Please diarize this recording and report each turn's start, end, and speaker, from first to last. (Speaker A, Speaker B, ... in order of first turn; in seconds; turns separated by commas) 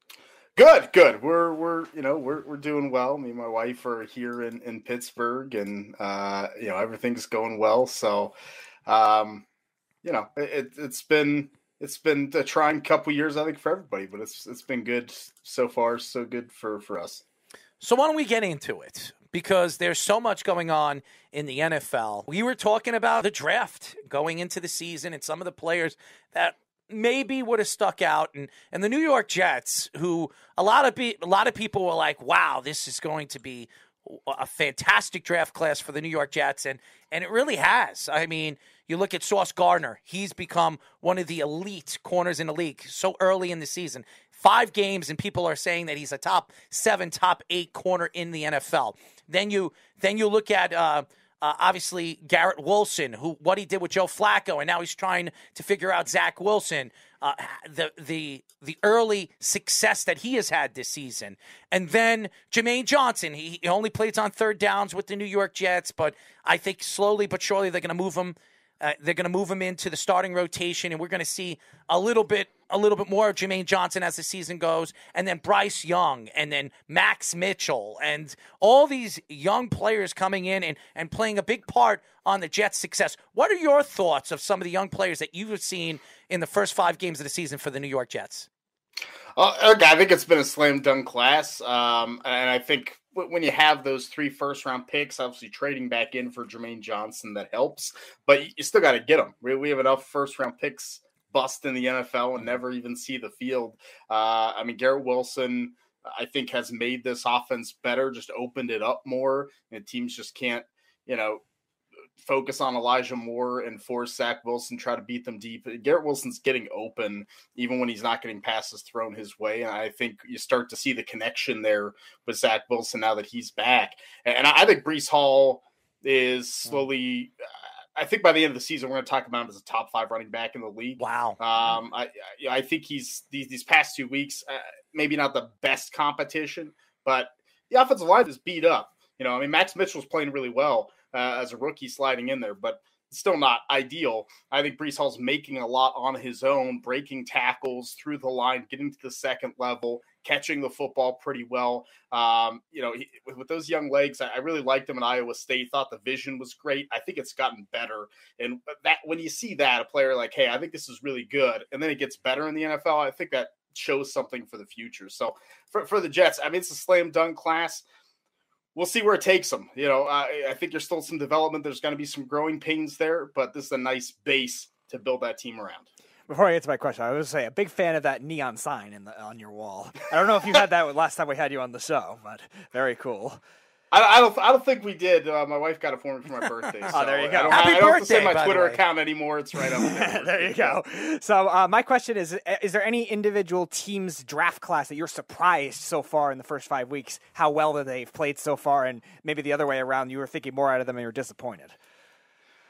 Speaker A: 0.6-8.3, Speaker A: 8.9-9.4, Speaker A: 10.0-17.2, Speaker B: 17.8-88.5, Speaker A: 89.3-111.4, Speaker A: 112.2-127.3, Speaker A: 128.0-167.8, Speaker B: 131.0-131.4, Speaker A: 168.7-175.9, Speaker C: 176.3-183.4, Speaker A: 183.9-190.8, Speaker C: 186.9-187.9, Speaker B: 187.5-188.8, Speaker C: 189.6-201.8